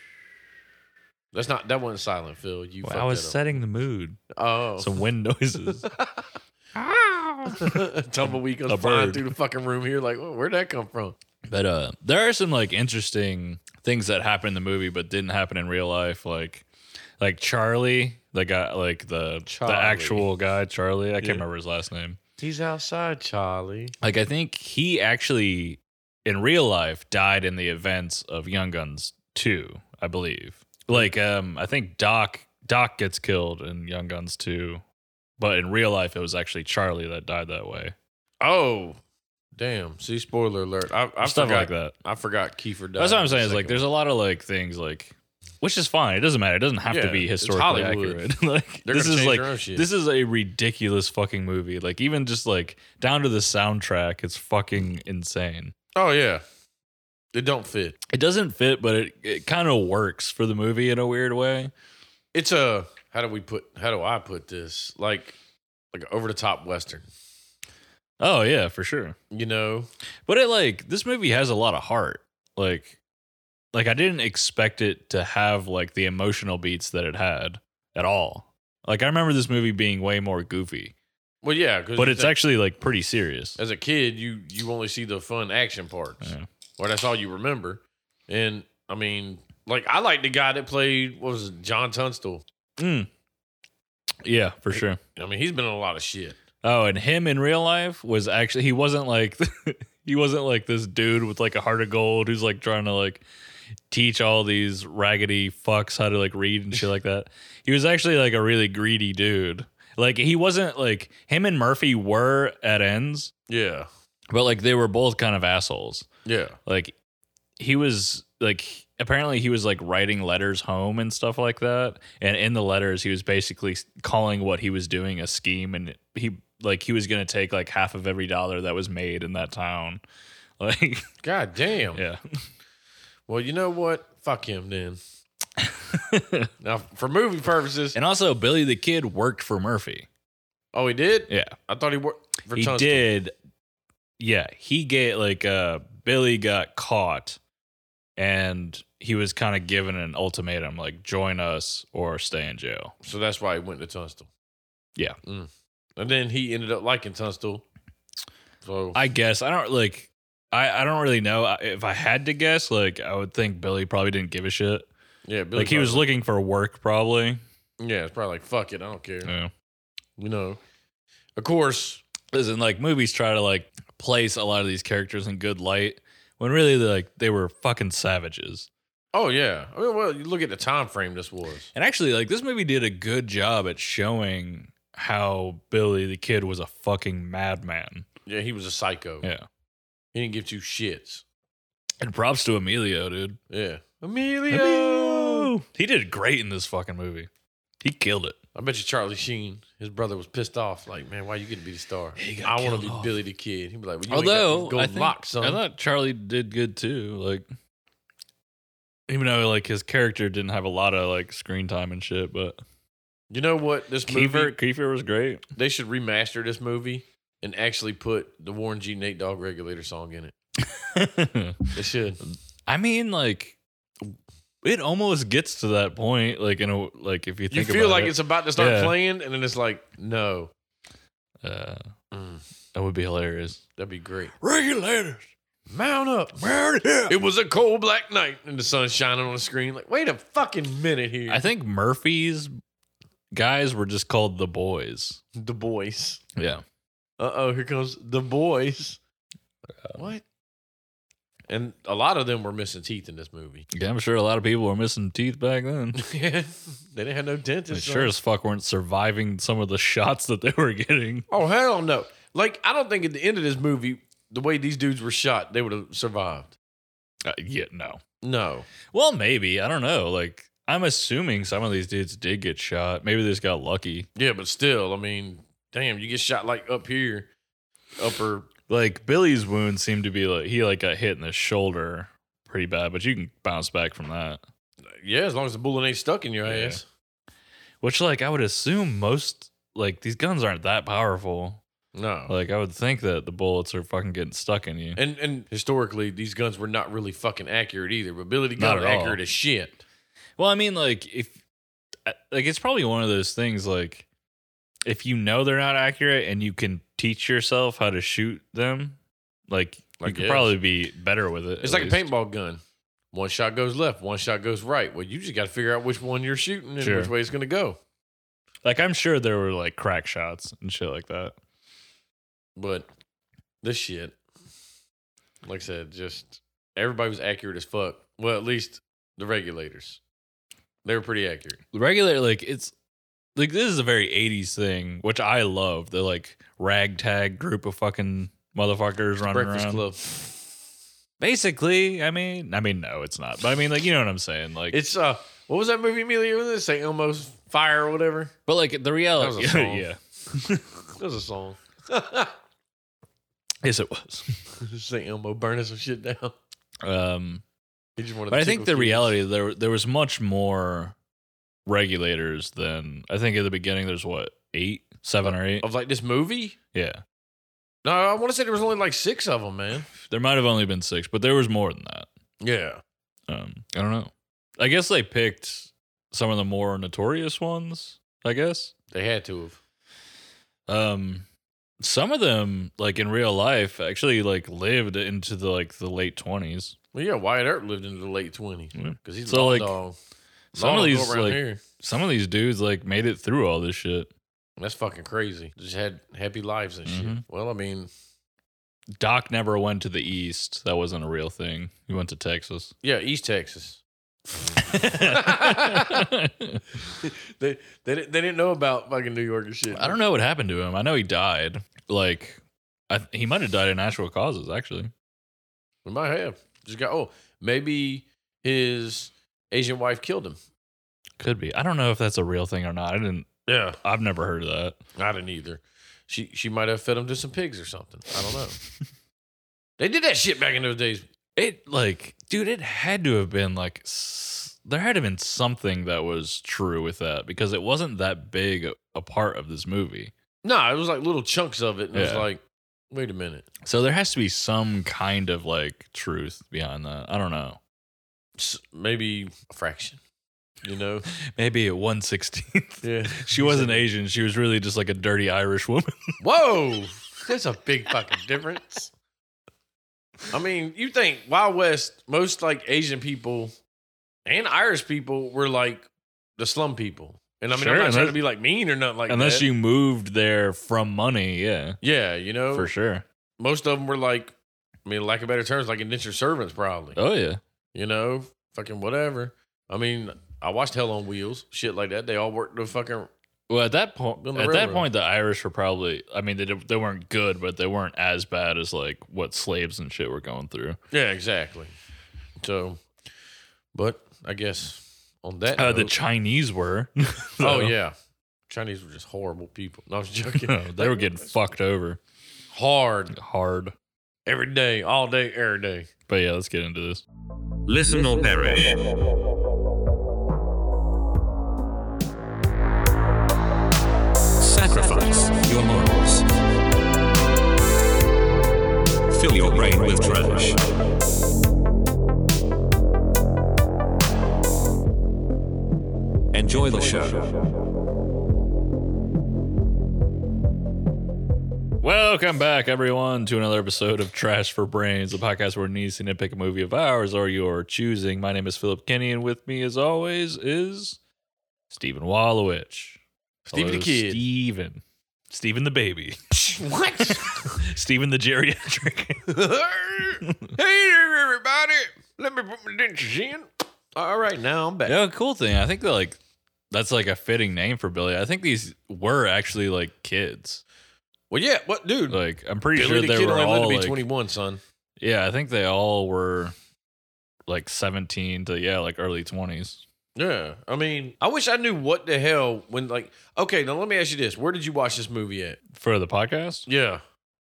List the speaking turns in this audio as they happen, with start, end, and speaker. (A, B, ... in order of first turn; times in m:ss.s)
0:01.3-0:03.4 A
0:02.8-0:04.2 B
0:04.3-0:05.0 A
0:04.8-0:05.8 B
0:05.8-0:06.2 A
0:06.8-0:09.3 B
0:07.6-0:11.2 A
0:11.5-0:16.6 B
0:17.2-0:22.2 B
0:19.5-0:20.3 A
0:22.4-0:24.0 A
0:24.0-0:34.8 B
0:35.4-0:38.0 B
0:38.4-0:39.0 A
0:39.6-0:43.8 A
0:41.2-0:42.0 B
0:43.0-0:55.7 B
0:46.9-0:48.2 A
0:48.8-0:49.9 A
0:56.0-0:56.4 A
0:57.3-0:58.0 A
0:58.1-1:01.7 B
1:02.3-1:05.4 A
1:05.9-1:07.0 A
1:08.2-1:09.2 B
1:09.3-1:09.9 A
1:10.3-1:13.0 B
1:13.7-1:20.9 B
1:21.4-1:22.4 A
1:22.0-1:23.6 B
1:23.6-1:32.4 A
1:32.8-1:33.1 B
1:34.2-1:35.0 B
1:34.7-1:36.4 A
1:36.6-1:43.2 B
1:43.9-1:53.3 B
1:53.5-1:53.9 A
1:54.3-1:56.1 B
1:56.2-1:56.6 A
1:56.7-1:57.0 B
1:57.6-2:10.0 B
2:10.6-2:11.0 B
2:11.2-2:12.0 A
2:12.0-2:12.2 B
2:13.3-2:15.0 A
2:15.6-2:16.5 B
2:16.6-2:18.0 A
2:18.0-2:20.1 B
2:20.7-2:23.1 A
2:21.3-2:21.6 B
2:22.5-2:23.3 B
2:24.2-2:27.4 B
2:28.2-2:32.9 B
2:33.0-2:34.3 A
2:35.2-2:37.6 A
2:38.6-2:39.0 A
2:39.0-2:44.9 B
2:45.3-2:46.1 A
2:45.6-2:47.4 B
2:47.8-2:49.3 A
2:49.2-2:49.5 B
2:50.2-2:50.6 A
2:51.4-2:52.0 A
2:52.3-2:58.7 B
2:59.1-3:01.7 A
3:01.7-3:08.1 B
3:08.3-3:09.3 A
3:09.2-3:09.5 B
3:10.1-3:11.2 A
3:12.0-3:13.4 B
3:13.5-3:15.5 A
3:14.5-3:17.3 B
3:17.8-3:18.4 B
3:18.6-3:25.6 A
3:22.2-3:23.1 B
3:24.1-3:27.5 B
3:29.1-3:32.6 B
3:33.3-3:34.5 A
3:34.1-3:35.5 B
3:35.6-3:40.3 A
3:40.6-3:41.7 B
3:41.7-3:42.2 A
3:42.7-3:43.6 B
3:44.6-3:49.0 B
3:47.5-3:50.5 A
3:51.4-3:51.8 B
3:52.1-3:52.4 A
3:52.8-3:53.6 B
3:53.8-3:54.3 A
3:54.4-3:55.2 B
3:55.7-3:56.4 A
3:56.4-3:57.2 B
3:57.1-4:01.5 A
4:01.3-4:02.5 B
4:03.3-4:05.2 B
4:05.4-4:06.2 A
4:06.4-4:06.6 B
4:07.2-4:09.0 A
4:09.9-4:10.2 A
4:11.5-4:13.7 A
4:13.7-4:16.0 B
4:16.0-4:18.1 A
4:17.7-4:21.3 B
4:21.3-4:26.6 A
4:27.2-4:28.0 B
4:28.2-4:28.7 A
4:28.9-4:34.1 B
4:34.2-4:37.3 A
4:38.0-4:38.5 A
4:38.7-4:44.4 B
4:44.9-4:46.9 A
4:46.4-4:46.8 B
4:47.8-4:51.6 B
4:51.9-4:52.3 A
4:52.3-4:55.0 B
4:55.0-4:59.8 A
4:58.6-4:59.2 B
5:00.4-5:01.4 B
5:02.0-5:04.1 B
5:04.8-5:09.0 B
5:09.5-5:12.0 B
5:10.0-5:10.6 A
5:11.6-5:12.6 A
5:13.1-5:17.8 A
5:16.8-5:17.1 B
5:18.6-5:21.4 B
5:22.6-5:22.9 A
5:23.6-5:24.2 A
5:25.4-5:30.0 A
5:30.8-5:31.6 A
5:31.7-5:32.7 B
5:33.4-5:39.8 B
5:39.3-5:40.0 A
5:41.2-5:44.8 B
5:44.7-5:48.3 A
5:48.5-5:50.7 B
5:49.2-5:49.9 A
5:51.0-5:52.4 A
5:53.6-5:54.4 B
5:54.6-5:56.4 A
5:56.8-5:57.4 B
5:58.0-5:59.2 A
5:58.3-6:01.0 B
6:01.7-6:05.7 B
6:05.2-6:06.6 A
6:06.7-6:07.0 B
6:07.8-6:09.9 A
6:10.0-6:12.1 B
6:12.4-6:12.8 A
6:13.3-6:18.7 B
6:18.9-6:19.6 A
6:20.7-6:21.3 B
6:21.8-6:26.8 B
6:26.9-6:30.0 A
6:28.8-6:29.8 B
6:30.5-6:34.1 B
6:30.5-6:31.6 A
6:34.6-6:37.9 A
6:36.9-6:37.2 B
6:39.0-6:42.7 B
6:42.8-6:46.1 A
6:44.7-6:46.6 B
6:46.8-6:50.0 A
6:49.7-6:54.9 B
6:55.9-7:00.4 A
7:01.2-7:03.3 B
7:03.5-7:03.8 A
7:03.8-7:04.8 B
7:05.0-7:08.6 A
7:09.8-7:11.1 A
7:11.4-7:20.1 B
7:20.4-7:23.5 A
7:21.9-7:22.3 B
7:23.6-7:27.6 B
7:28.4-7:30.0 A
7:30.6-7:31.1 A
7:31.3-7:36.0 B
7:32.8-7:33.8 A
7:36.2-7:38.9 A
7:40.3-7:43.5 A
7:44.3-7:45.9 A
7:46.4-7:49.5 A
7:47.5-7:48.2 B
7:49.1-7:51.8 B
7:51.8-7:52.7 A
7:52.5-7:53.0 B
7:53.4-7:54.3 A
7:54.8-7:57.0 A
7:57.0-7:57.4 B
7:57.8-8:03.1 A
8:03.5-8:10.8 B
8:04.2-8:04.9 A
8:10.9-8:11.7 A
8:12.4-8:12.8 A
8:13.7-8:15.9 A
8:15.5-8:17.8 B
8:17.4-8:18.0 A
8:18.5-8:21.3 A
8:20.3-8:22.0 B
8:22.5-8:23.2 A
8:23.1-8:23.7 B
8:24.3-8:25.9 A
8:26.1-8:27.0 B
8:27.7-8:29.0 C
8:34.4-8:36.3 C
8:39.1-8:40.7 C
8:46.3-8:47.5 C
8:51.8-9:01.0 B
9:01.7-9:03.0 B
9:03.4-9:04.2 A
9:03.5-9:09.3 B
9:06.5-9:07.6 A
9:09.3-9:15.0 A
9:10.3-9:10.5 B
9:14.9-9:16.2 B
9:16.7-9:20.6 B
9:21.3-9:22.2 A
9:22.1-9:24.0 B
9:22.7-9:24.6 A
9:25.0-9:26.6 B
9:27.5-9:29.8 B
9:30.2-9:35.6 A
9:35.7-9:36.7 B
9:36.7-9:37.0 A